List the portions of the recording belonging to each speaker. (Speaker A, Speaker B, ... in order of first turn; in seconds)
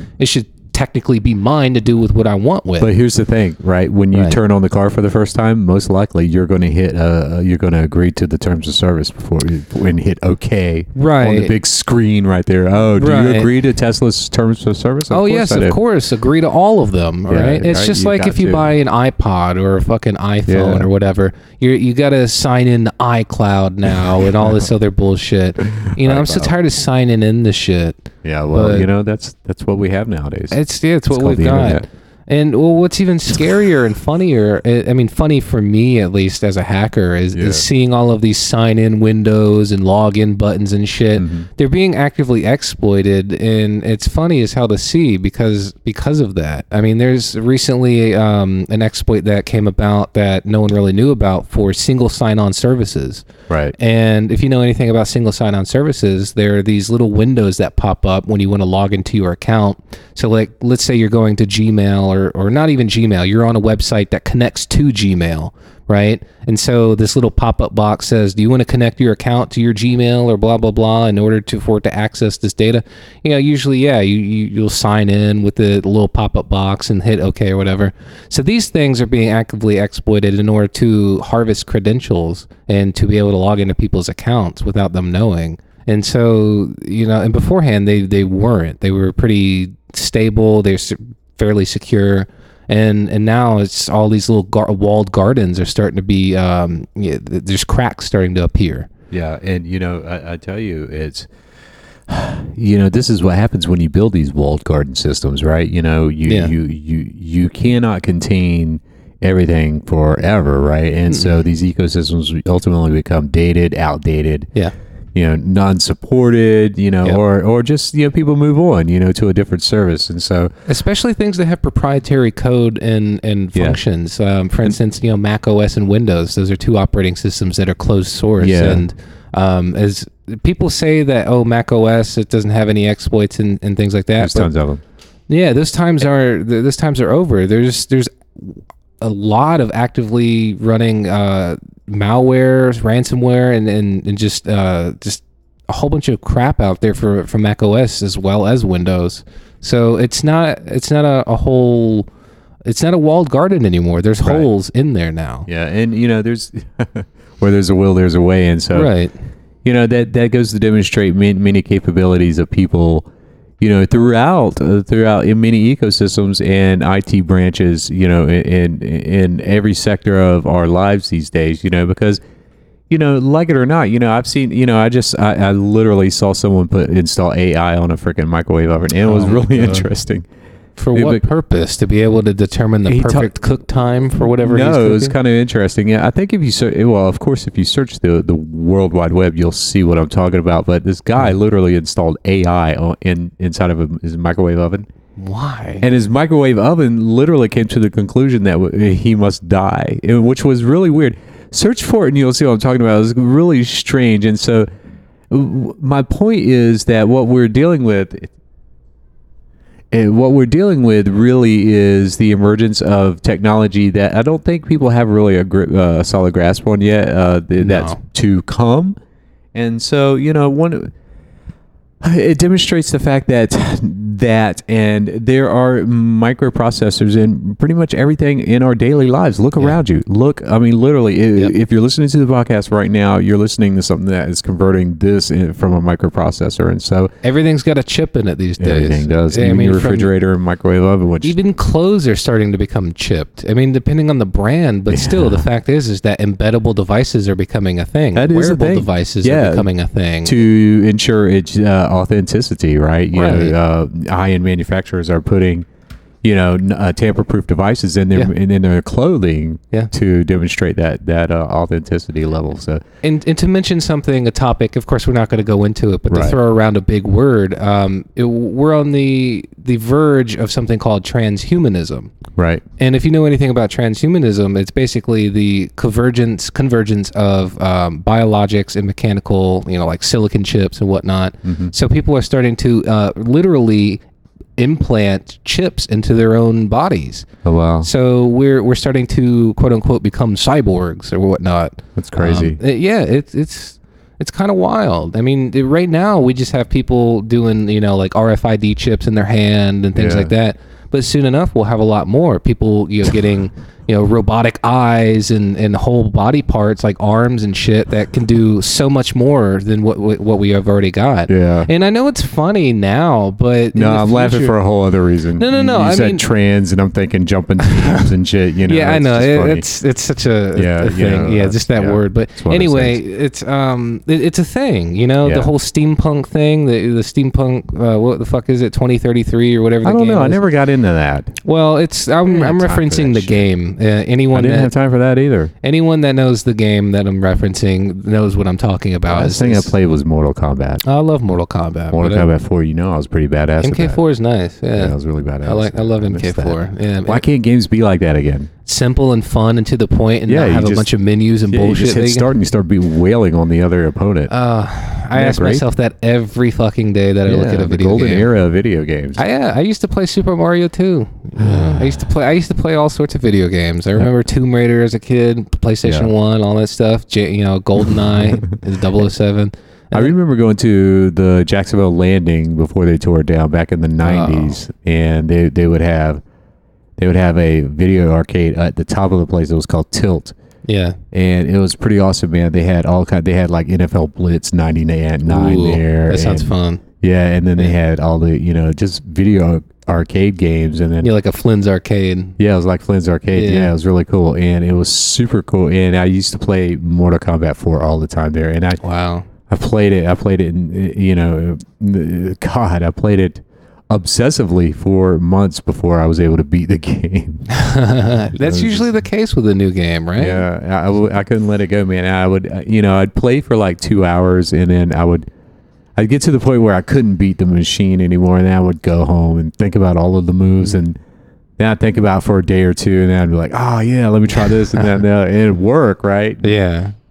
Speaker A: 0.2-2.9, 4.1-4.4, 10.9-11.6, 12.9-13.5, 15.1-28.9, 30.5-98.9, 106.2-106.5, 111.1-111.4, 120.7-134.5, 135.3-152.1, 152.6-155.5, 158.7-159.1, 179.0-179.9, 180.8-185.2, 195.2-195.9, 217.6-218.0, 237.2-240.1, 241.2-250.4, 253.1-253.6, 263.0-272.1, 272.8-284.0, 284.6-287.2, 287.8-314.6, 315.4-316.2, 317.6-318.0, 318.7-330.4, 331.4-334.7, 335.6-339.7, 340.8-342.3, 343.6-347.2, 348.6-352.3, 354.3-358.3, 359.2-370.1, 374.0-374.6, 380.6-381.0, 385.2-386.8, 391.0-392.4, 393.3-393.7, 398.8-399.3, 407.5-410.4, 426.4-426.9
Speaker B: 2.8-15.8, 17.3-18.7, 20.4-20.9, 25.8-26.5, 28.2-30.6, 31.1-31.9, 37.3-37.6, 41.2-41.5, 53.5-53.7, 99.1-101.3, 102.1-114.5, 115.1-120.5, 128.4-128.8, 134.2-134.8, 154.2-154.5, 155.4-158.9, 159.6-163.1, 163.6-172.2, 172.9-180.2, 180.9-181.2, 182.9-183.3, 184.2-194.9, 195.8-204.7, 205.3-208.3, 209.9-218.9, 219.5-220.9, 222.0-237.1, 238.6-241.3, 244.9-245.5, 248.1-249.7, 250.2-255.7, 256.2-262.8, 266.1-266.4, 272.4-272.6, 281.4-281.7, 287.4-287.9, 291.9-292.6, 299.9-300.3, 311.3-311.7, 313.7-319.6, 320.5-323.0, 325.2-325.5, 329.8-331.4, 332.2-333.5, 334.3-335.5, 339.1-340.8, 341.9-344.0, 344.7-348.5, 350.3-350.9, 351.4-354.3, 355.1-355.6, 357.2-359.2, 361.4-362.0, 365.8-366.1, 369.9-376.2, 377.0-380.3, 381.1-391.1, 392.4-398.8, 399.5-407.6, 408.4-408.9, 410.2-415.2, 416.0-421.0, 421.6-426.5